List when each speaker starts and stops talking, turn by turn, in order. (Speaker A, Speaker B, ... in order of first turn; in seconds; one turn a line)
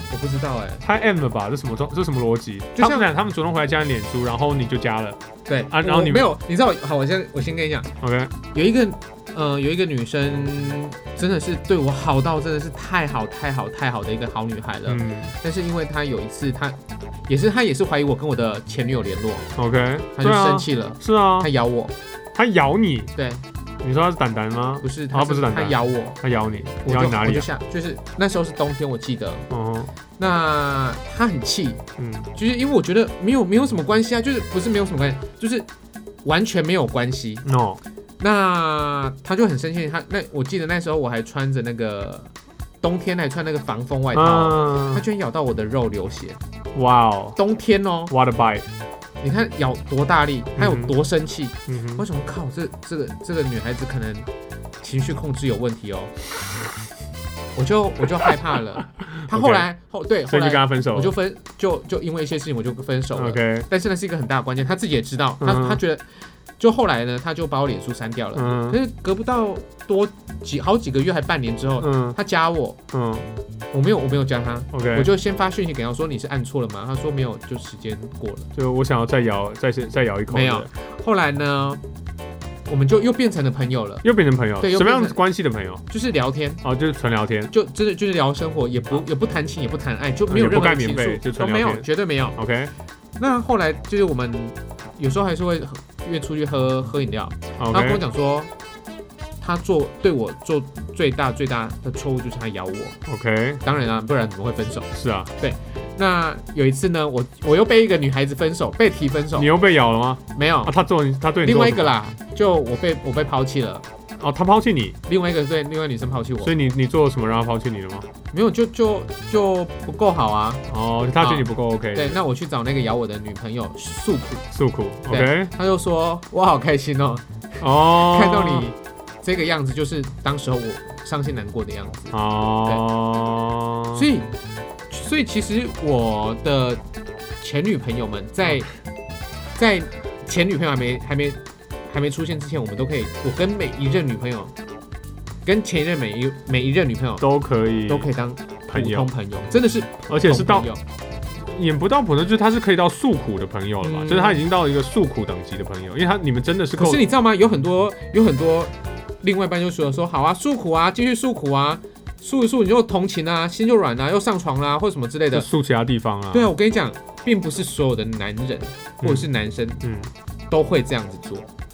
Speaker A: 0.1-0.8
Speaker B: 0.8-5.2
Speaker A: 2.8-3.1
Speaker A: 5.5-7.9
Speaker B: 5.7-6.3
Speaker B: 8.0-8.3
Speaker A: 8.4-19.5
Speaker B: 14.9-15.3
Speaker B: 19.6-21.5
Speaker A: 20.2-21.9
Speaker B: 22.4-23.1
Speaker A: 23.1-23.4
Speaker B: 23.8-27.5
Speaker A: 24.8-26.2
Speaker A: 26.8-29.5
Speaker B: 29.5-29.9
Speaker A: 30.2-31.8
Speaker B: 32.0-32.3
Speaker A: 32.3-35.7
Speaker A: 36.2-37.4
Speaker B: 37.5-37.8
Speaker A: 38.2-46.4
Speaker B: 44.1-45.0
Speaker B: 46.8-47.4
Speaker A: 47.4-48.1
Speaker B: 48.1-48.7
Speaker A: 49.2-54.3
Speaker B: 50.6-50.9
Speaker B: 51.7-52.0
Speaker A: 54.8-56.1
Speaker A: 57.6-72.8
Speaker B: 59.1-59.7
Speaker B: 60.3-61.1
Speaker B: 63.1-63.7
Speaker B: 65.4-65.8
Speaker B: 68.3-68.8
Speaker B: 71.8-72.2
Speaker B: 72.9-73.3
Speaker A: 73.7-78.5
Speaker B: 74.7-75.1
Speaker B: 78.5-80.7
Speaker A: 80.3-81.8
Speaker A: 82.7-84.0
Speaker B: 84.0-85.8
Speaker A: 84.6-85.2
Speaker A: 85.9-86.6
Speaker B: 86.6-87.5
Speaker A: 87.5-92.4
Speaker B: 90.3-92.7
Speaker A: 93.2-98.5
Speaker B: 97.6-98.0
Speaker A: 99.4-103.0
Speaker B: 103.1-103.6
Speaker A: 103.6-104.9
Speaker B: 104.9-105.3
Speaker A: 105.4-109.5
Speaker B: 109.4-111.9
Speaker A: 110.3-110.7
Speaker A: 111.4-113.8
Speaker B: 114.2-115.0
Speaker A: 115.1-116.5
Speaker B: 116.4-118.1
Speaker A: 118.3-120.6
Speaker B: 120.7-122.2
Speaker A: 121.2-124.5
Speaker B: 124.5-125.5
Speaker A: 125.1-132.8
Speaker B: 127.6-128.7
Speaker B: 132.1-134.1
Speaker A: 133.9-134.3
Speaker A: 134.9-136.8
Speaker A: 137.4-138.7
Speaker A: 139.6-144.5
Speaker A: 145.4-147.3
Speaker B: 147.2-148.1
Speaker A: 147.9-150.8
Speaker B: 148.7-149.1
Speaker B: 150.1-150.7
Speaker B: 151.3-157.1
Speaker A: 153.8-154.4
Speaker A: 156.7-165.5
Speaker B: 165.3-166.5
Speaker A: 166.3-169.8
Speaker B: 169.0-169.3
Speaker B: 169.8-170.1
Speaker A: 170.5-171.5